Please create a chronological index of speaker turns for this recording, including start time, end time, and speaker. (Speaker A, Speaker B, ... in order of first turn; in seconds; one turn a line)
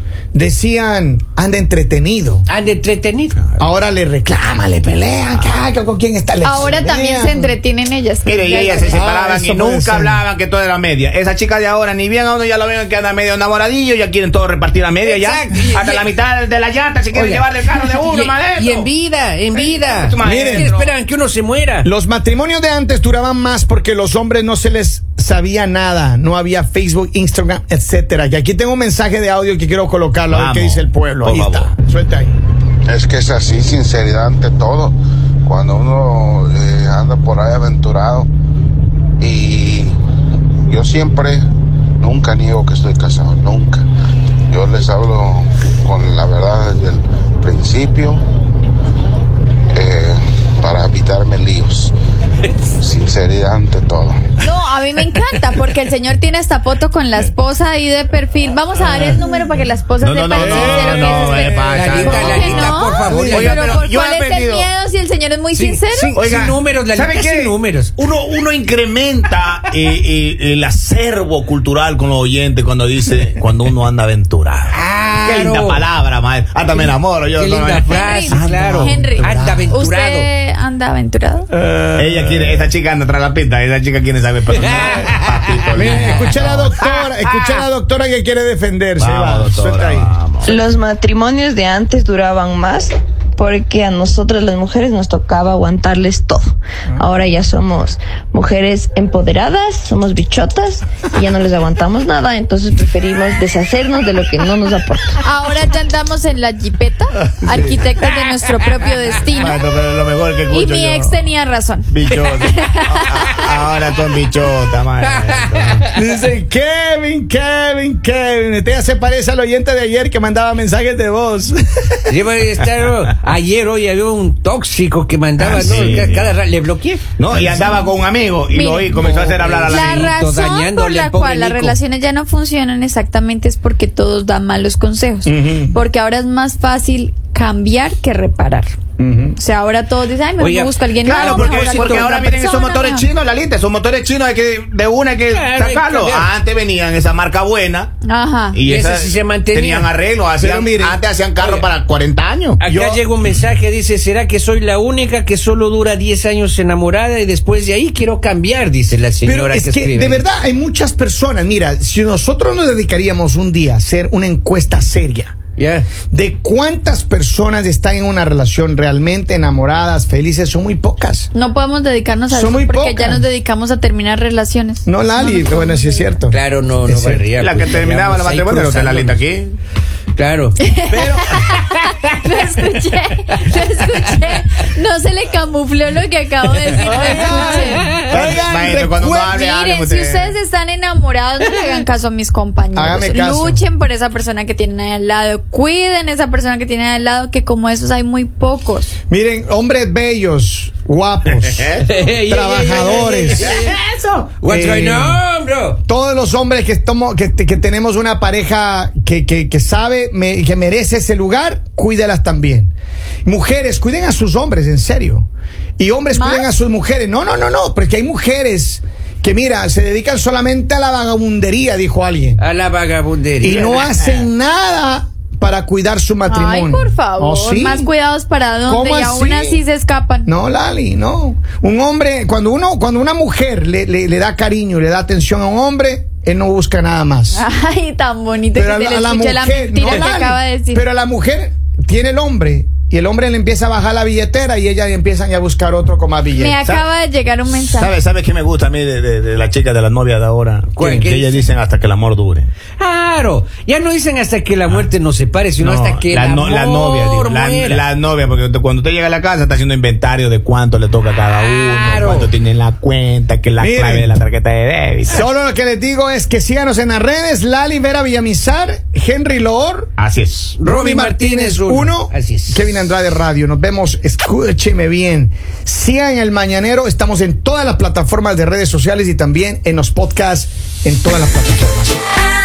Speaker A: 0.3-2.5
Speaker B: 2.5-3.4
Speaker A: 3.6-7.5
Speaker C: 6.4-9.0
Speaker D: 8.2-18.9
Speaker A: 8.8-10.2
Speaker B: 15.0-16.1
Speaker B: 17.1-21.9
Speaker D: 19.5-20.9
Speaker A: 20.2-20.7
Speaker A: 21.8-32.3
Speaker D: 30.3-31.7
Speaker E: 32.9-38.3
Speaker E: 39.2-40.0
Speaker E: 40.7-41.4
Speaker E: 42.0-43.9
Speaker E: 44.5-48.2
Speaker E: 49.7-51.9
Speaker E: 52.8-54.2
Speaker C: 54.4-66.1
Speaker D: 60.0-62.7
Speaker A: 60.3-63.8
Speaker B: 61.7-63.6
Speaker D: 63.3-64.7
Speaker B: 65.5-67.9
Speaker D: 66.1-78.0
Speaker B: 74.7-75.8
Speaker B: 76.7-80.3
Speaker C: 77.8-81.5
Speaker A: 78.3-79.7
Speaker D: 78.7-78.9
Speaker A: 81.5-82.7
Speaker D: 82.0-86.8
Speaker B: 84.5-86.2
Speaker A: 84.9-85.1
Speaker A: 85.7-90.1
Speaker B: 86.8-87.6
Speaker D: 89.0-90.6
Speaker F: 90.5-96.5
Speaker F: 97.0-105.1
Speaker C: 105.2-109.6
Speaker A: 107.3-107.8
Speaker D: 109.3-111.3
Speaker C: 110.5-113.3
Speaker D: 111.9-115.9
Speaker B: 115.1-115.9
Speaker A: 115.9-122.1
Speaker B: 122.1-127.0
Speaker A: 125.4-126.1
Speaker D: 125.5-126.3
Speaker D: 127.2-130.2
Speaker A: 127.4-127.7
Speaker C: 128.5-129.0
Speaker B: 128.9-131.8
Speaker C: 129.6-138.7
Speaker A: 135.2-135.8
Speaker A: 139.0-139.4
Speaker C: 139.4-143.1
Speaker B: 140.4-142.2
Speaker D: 141.0-147.9
Speaker B: 145.3-146.3
Speaker C: 148.0-148.6
Speaker D: 148.5-152.6
Speaker B: 148.6-149.9
Speaker A: 150.4-151.0
Speaker B: 151.4-151.7
Speaker B: 152.6-160.2
Speaker A: 152.6-153.1
Speaker A: 159.2-165.3
Speaker B: 165.6-165.9
Speaker A: 166.1-171.3
Speaker C: 171.3-175.8
Speaker A: 172.3-173.2
Speaker A: 174.8-177.2
Speaker B: 176.3-179.2
Speaker D: 177.4-179.6
Speaker B: 180.2-180.6
Speaker C: 180.6-188.0
Speaker A: 180.9-181.4
Speaker A: 186.8-189.3
Speaker B: 186.9-188.1
Speaker D: 188.1-190.3
Speaker C: 189.0-198.9
Speaker A: 192.7-193.6
Speaker A: 199.1-203.6
Speaker D: 201.3-201.8
Speaker B: 201.8-205.8
Speaker A: 204.4-205.2
Speaker A: 205.9-212.7
Speaker A: 213.2-215.3
Speaker A: 215.8-222.4
Speaker C: 216.1-216.4
Speaker B: 222.4-223.9
Speaker A: 223.4-227.9
Speaker C: 226.2-230.3
Speaker A: 228.7-229.6
Speaker A: 230.2-237.4
Speaker C: 237.3-240.8
Speaker A: 238.5-246.6
Speaker C: 246.3-247.9
Speaker D: 247.7-252.5
Speaker B: 250.7-251.5
Speaker B: 252.8-257.8
Speaker D: 255.6-265.2
Speaker B: 261.3-262.3
Speaker A: 263.6-264.1
Speaker A: 265.1-269.9
Speaker D: 270.0-270.6
Speaker B: 270.6-272.6
Speaker A: 270.6-282.0